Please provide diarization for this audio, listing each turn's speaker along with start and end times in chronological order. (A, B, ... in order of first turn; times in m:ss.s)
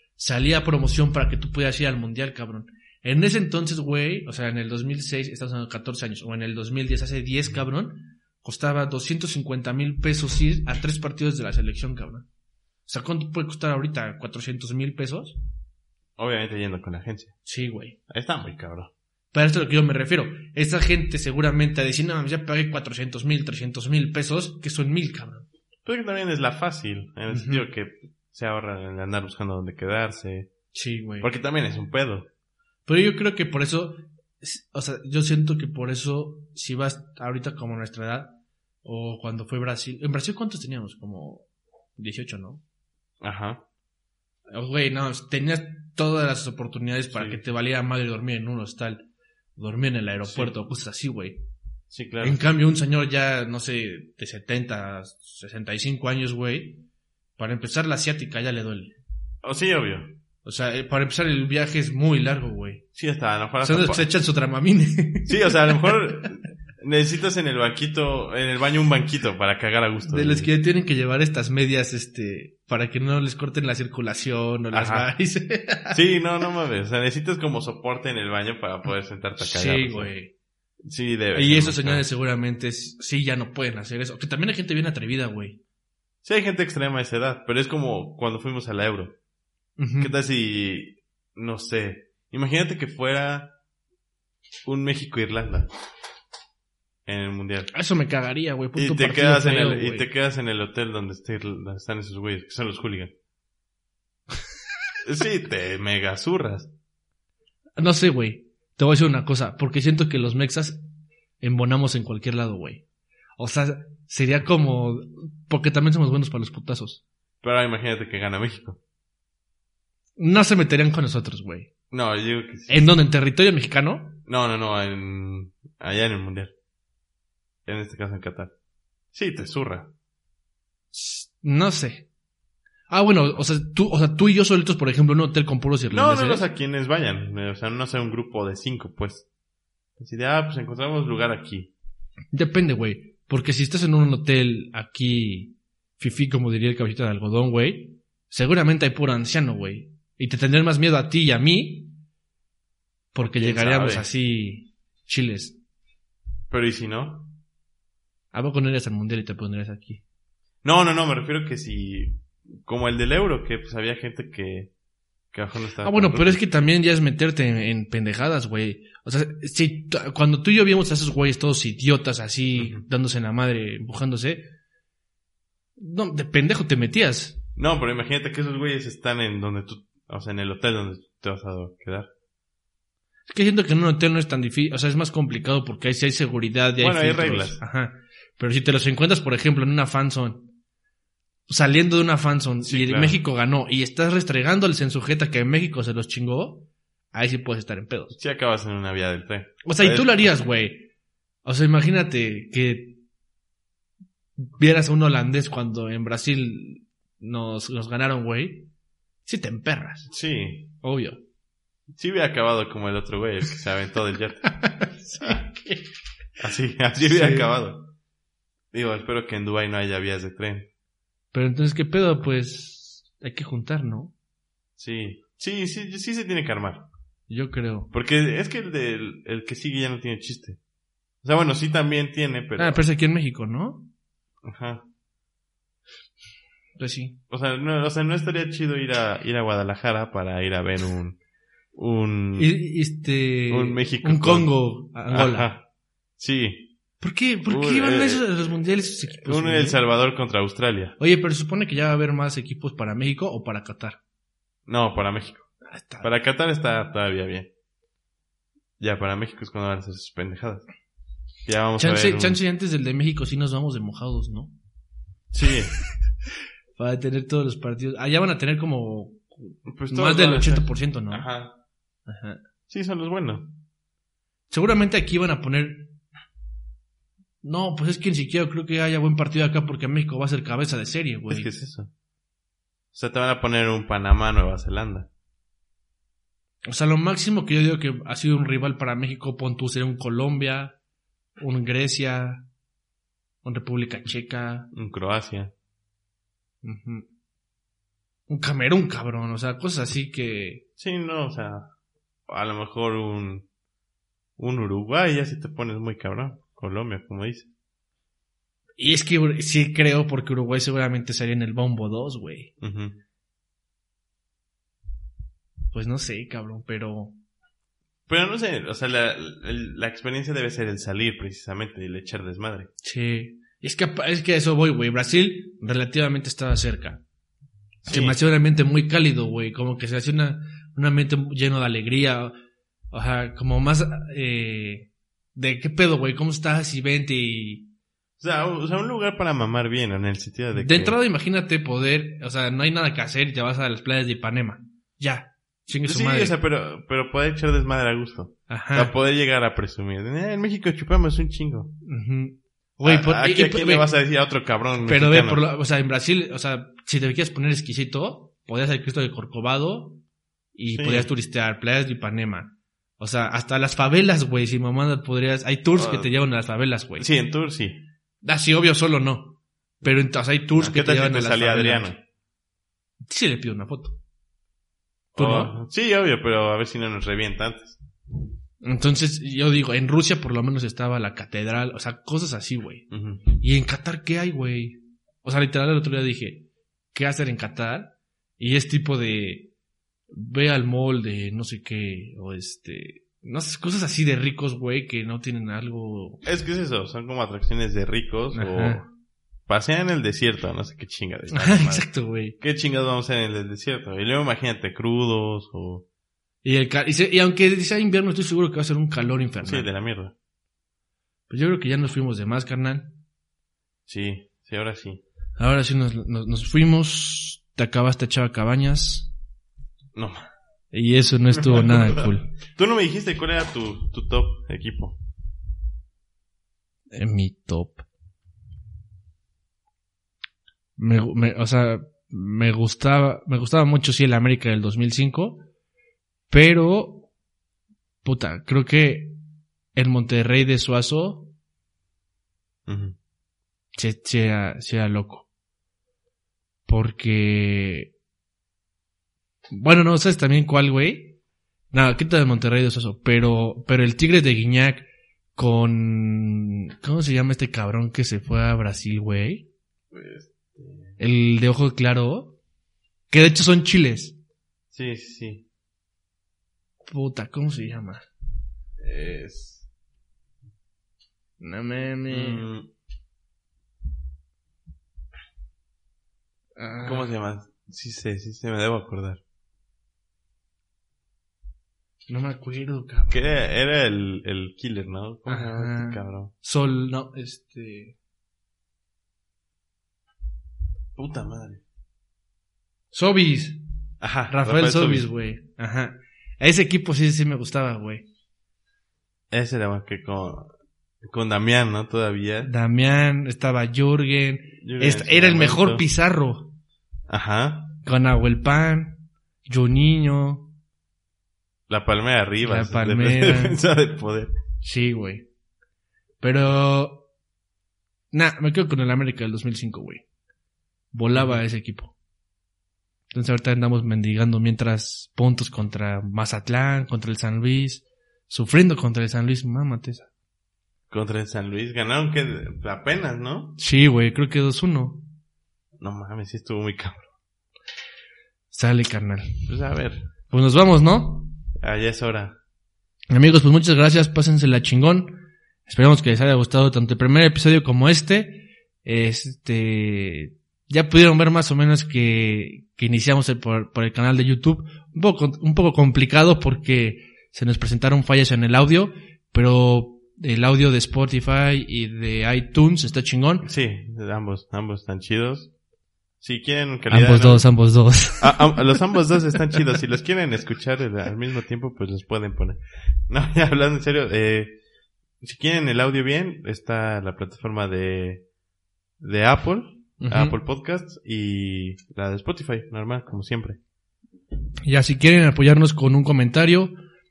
0:00.2-0:12.3 A
0:12.9-0:15.4 A
0:16.2-0:17.3 B
0:17.4-0:18.0 A
0:18.1-0:18.9 B
0:19.3-0:25.4 A
0:25.9-0:30.5 B
0:27.3-0:27.7 A
0:30.7-0:31.3 A
0:31.2-0:32.3 B
0:32.9-0:42.6 A
0:43.2-0:43.6 B
0:44.5-0:49.0 A
0:47.1-0:47.4 B
0:49.6-0:51.4 A
0:50.2-0:50.5 B
0:51.9-0:52.4 B
0:52.2-0:56.8 A
0:57.4-0:59.0 A
0:59.4-1:00.2 B
1:00.4-1:02.8 A
1:03.0-1:04.1 B
1:03.6-1:06.2 A
1:05.3-1:10.5 B
1:10.0-1:16.0 A
1:14.7-1:15.1 B
1:15.9-1:20.1 B
1:19.4-1:20.3 A
1:20.8-1:22.0 B
1:21.3-1:25.6 A
1:26.2-1:29.1 B
1:29.8-1:30.1 A
1:30.0-1:33.5 B
1:34.7-1:35.7 B
1:37.0-1:37.7 B
1:37.7-1:40.1 A
1:38.8-1:43.1 B
1:45.0-1:46.7 B
1:47.8-1:50.8 A
1:51.4-1:52.8 A
1:53.4-1:57.0 A
1:57.4-1:58.8 B
2:00.2-2:01.7 A
2:01.9-2:02.9 B
2:02.7-2:04.2 A
2:04.3-2:06.5 B
2:07.7-2:08.5 B
2:09.1-2:09.9 B
2:10.9-2:12.1 A
2:12.9-2:16.4 A
2:15.9-2:19.3 B
2:20.0-2:21.7 B
2:22.3-2:32.0 A
2:33.1-2:35.6 A
2:33.2-2:34.1 B
2:36.5-2:37.3 B
2:38.3-2:40.0 A
2:40.6-2:44.7 B
2:45.3-2:46.5 B
2:45.8-2:54.4 A
2:52.6-2:52.8 B
2:55.8-2:57.4 A
2:57.6-3:02.1 B
3:03.3-3:10.5 A
3:06.8-3:07.6 B
3:11.5-3:18.1 A
3:12.6-3:13.2 B
3:18.1-3:20.5 B
3:19.6-3:20.9 A
3:21.4-3:23.0 A
3:24.4-3:28.7 A
3:29.3-3:30.1 A
3:30.1-3:30.7 B
3:30.8-3:31.2 A
3:31.9-3:34.7 B
3:34.5-3:35.9 A
3:36.4-3:37.9 B
3:37.0-3:37.5 A
3:38.7-3:40.7 B
3:41.3-3:44.1 A
3:44.8-3:46.9 B
3:47.3-3:47.9 A
3:47.9-3:50.6 B
3:51.2-3:52.8 B
3:52.6-3:53.9 A
3:54.4-3:54.8 B
3:56.8-3:57.2 A
3:57.3-4:01.2 B
4:01.7-4:02.5 B
4:02.4-4:05.5 A
4:03.5-4:05.6 B
4:06.2-4:06.7 B
4:07.0-4:09.8 A
4:07.4-4:11.0 B
4:11.0-4:14.0 A
4:14.7-4:15.5 B
4:15.7-4:16.1 A
4:16.0-4:17.5 B
4:18.8-4:20.7 B
4:21.4-4:22.4 B
4:21.8-4:24.5 A
4:25.3-4:25.7 B
4:26.8-4:31.3 A
4:29.7-4:31.5 B
4:32.1-4:32.4 A
4:32.7-4:33.5 B
4:34.5-4:36.0 A
4:37.4-4:41.5 A
4:41.3-4:41.9 B
4:42.9-4:45.1 B
4:46.6-4:50.8 A
4:51.4-4:52.4 A
4:53.4-4:54.7 A
4:54.7-4:55.5 B
4:56.6-4:57.0 A
4:58.3-5:00.6 A
5:00.8-5:01.7 B
5:02.3-5:03.5 B
5:04.4-5:07.5 B
5:08.8-5:12.5 A
5:12.6-5:13.0 B
5:15.7-5:17.1 A
5:18.1-5:22.7 B
5:22.8-5:27.0 A
5:27.9-5:28.2 B
5:27.9-5:32.3 A
5:32.9-5:37.7 A
5:38.2-5:41.0 B
5:40.5-5:46.4 A
5:45.8-5:51.7 B
5:48.5-5:48.9 A
5:51.8-5:53.9 A
5:52.8-5:55.4 B
5:54.8-6:00.0 A
6:00.6-6:07.1 A
6:00.7-6:01.1 B
6:05.7-6:06.1 B
6:07.0-6:07.8 B
6:08.2-6:11.9 A
6:10.6-6:12.0 B
6:13.1-6:14.0 A
6:15.1-6:15.5 A
6:15.2-6:17.8 B
6:18.6-6:29.5 A
6:22.9-6:23.2 B
6:30.1-6:36.2 A
6:36.2-6:38.8 B
6:38.3-6:38.8 A
6:39.5-6:41.9 B
6:41.3-6:42.4 A
6:42.4-6:45.8 B
6:46.4-6:49.7 A
6:49.4-6:50.1 B
6:51.3-6:53.0 A
6:53.9-6:55.0 B
6:55.4-6:59.1 A
7:00.0-7:00.3 B
7:00.7-7:02.3 A
7:01.4-7:05.0 B
7:06.9-7:07.8 A
7:10.8-7:15.4 A
7:16.3-7:17.1 A
7:18.0-7:19.2 A
7:19.7-7:21.3 A
7:22.7-7:23.0 B
7:23.7-7:25.3 A
7:26.7-7:27.9 A
7:29.5-7:31.2 A
7:31.7-7:39.5 A
7:39.9-7:41.0 B
7:41.0-7:42.4 A
7:43.1-7:44.2 A
7:44.7-7:45.4 B
7:46.9-7:48.0 A
7:48.8-7:49.7 B
7:51.4-7:52.4 A
7:52.1-7:52.7 B
7:56.6-7:57.1 A
7:56.8-7:59.2 B
8:02.1-8:03.3 A
8:03.1-8:06.3 B
8:05.3-8:08.0 A
8:11.0-8:11.6 B
8:12.9-8:13.6 A
8:14.0-8:15.1 B
8:14.3-8:18.0 A
8:19.3-8:22.5 B
8:22.4-8:26.5 A
8:24.6-8:25.9 B
8:27.1-8:27.7 B
8:27.8-8:30.5 A
8:31.7-8:34.3 B
8:32.4-8:33.6 A
8:34.6-8:35.3 A
8:36.2-8:37.1 A
8:38.1-8:40.0 A
8:40.9-8:41.9 A
8:41.1-8:41.4 B
8:43.1-8:50.1 A
8:50.9-8:53.6 B
8:53.6-8:55.0 A
8:55.8-8:57.1 B
8:58.5-8:59.5 A
8:59.5-9:00.0 B
9:00.3-9:01.4 A
9:01.6-9:02.4 B
9:03.1-9:23.5 A
9:23.4-9:25.5 B
9:26.2-9:27.4 B
9:26.9-9:28.6 A
9:28.2-9:34.5 B
9:35.2-9:38.3 B
9:39.0-9:43.6 B
9:40.0-9:40.4 A
9:44.7-9:46.7 A